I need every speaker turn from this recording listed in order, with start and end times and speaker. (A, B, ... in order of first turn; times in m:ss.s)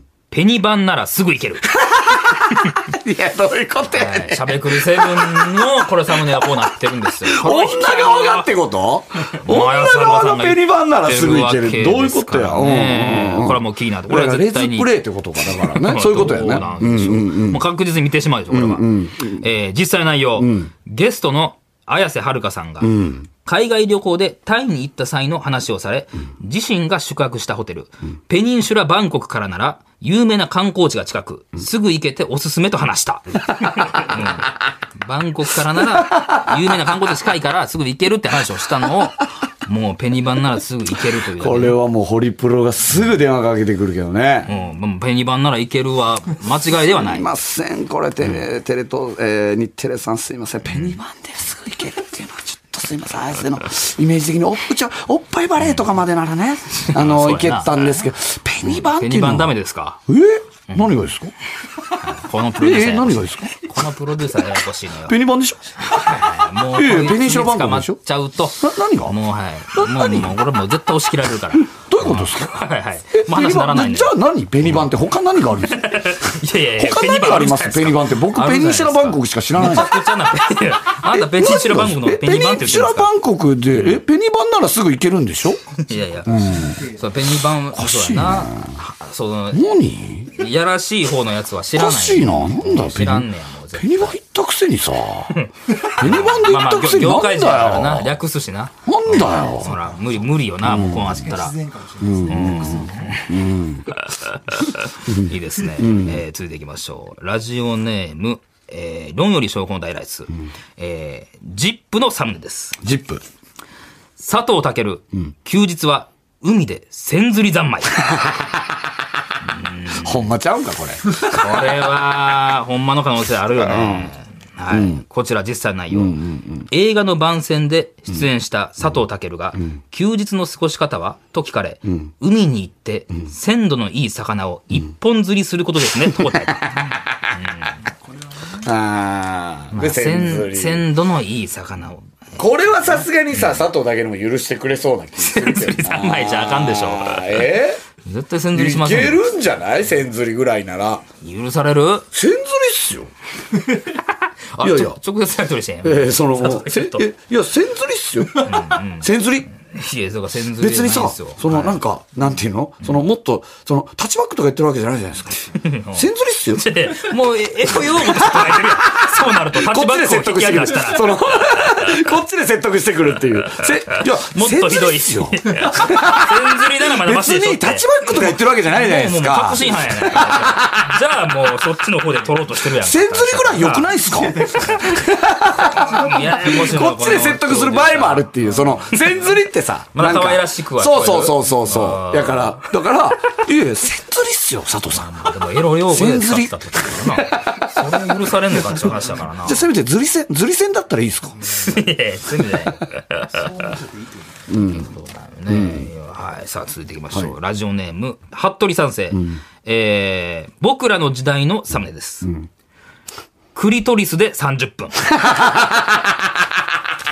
0:00.3-0:01.7 A
0:01.7-0:06.5 B
0:03.9-0:08.5 A
0:07.2-0:17.6 B
0:09.3-0:14.9 A
0:15.5-0:41.8 A
0:18.5-0:19.4 B
0:20.4-0:20.7 B
0:22.8-0:23.2 B
0:35.8-0:36.6 B
0:41.3-0:44.5 B
0:44.5-0:47.3 A
0:46.9-1:01.3 B
0:55.6-0:55.8 A
0:56.8-0:58.0 A
0:58.6-1:00.0 A
1:02.0-1:05.2 A
1:02.6-1:03.7 B
1:05.1-1:05.9 B
1:05.8-1:14.1 A
1:06.7-1:08.0 B
1:08.6-1:09.2 B
1:09.7-1:10.4 B
1:11.7-1:20.0 B
1:15.7-1:23.1 A
1:21.0-1:25.7 B
1:23.7-1:24.0 A
1:25.8-1:29.6 A
1:26.2-1:27.1 C
1:26.3-1:26.8 B
1:27.7-1:28.8 B
1:29.5-1:30.3 B
1:30.3-1:34.2 A
1:31.7-1:35.3 B
1:35.3-1:41.5 A
1:36.0-1:38.2 B
1:38.8-1:39.7 B
1:39.6-1:40.3 C
1:40.6-1:41.2 B
1:41.0-1:43.2 C
1:42.0-1:43.9 B
1:42.3-1:43.2 A
1:44.0-1:52.8 A
1:45.1-1:46.2 B
1:52.8-1:53.2 B
1:54.2-1:58.1 A
1:58.1-1:58.5 B
1:59.4-2:00.3 A
2:00.0-2:01.8 B
2:01.2-2:06.2 A
2:03.6-2:04.1 B
2:04.7-2:05.0 B
2:05.9-2:06.7 B
2:06.7-2:16.7 A
2:16.2-2:17.0 B
2:17.3-2:17.7 A
2:17.9-2:18.7 C
2:18.6-2:20.8 B
2:19.7-2:22.4 A
2:22.4-2:27.8 B
2:23.3-2:23.6 A
2:25.2-2:29.2 A
2:28.5-2:31.0 B
2:31.2-2:32.1 A
2:32.1-2:33.1 B
2:34.5-2:37.0 A
2:34.6-2:35.0 B
2:35.8-2:39.5 B
2:38.4-2:41.8 A
2:40.5-2:47.0 B
2:45.5-2:52.0 A
2:47.6-3:01.0 B
2:53.5-3:03.9 A
3:02.7-3:15.3 B
3:04.1-3:04.8 C
3:05.6-3:09.0 A
3:09.9-3:12.6 A
3:14.9-3:19.7 A
3:15.8-3:17.6 B
3:19.4-3:21.4 B
3:21.6-3:23.5 A
3:23.3-3:24.5 C
3:24.5-3:24.9 B
3:24.6-3:32.3 A
3:25.5-3:25.9 B
3:29.1-3:29.4 B
3:32.2-3:32.5 B
3:33.5-3:35.1 A
3:35.1-3:36.6 B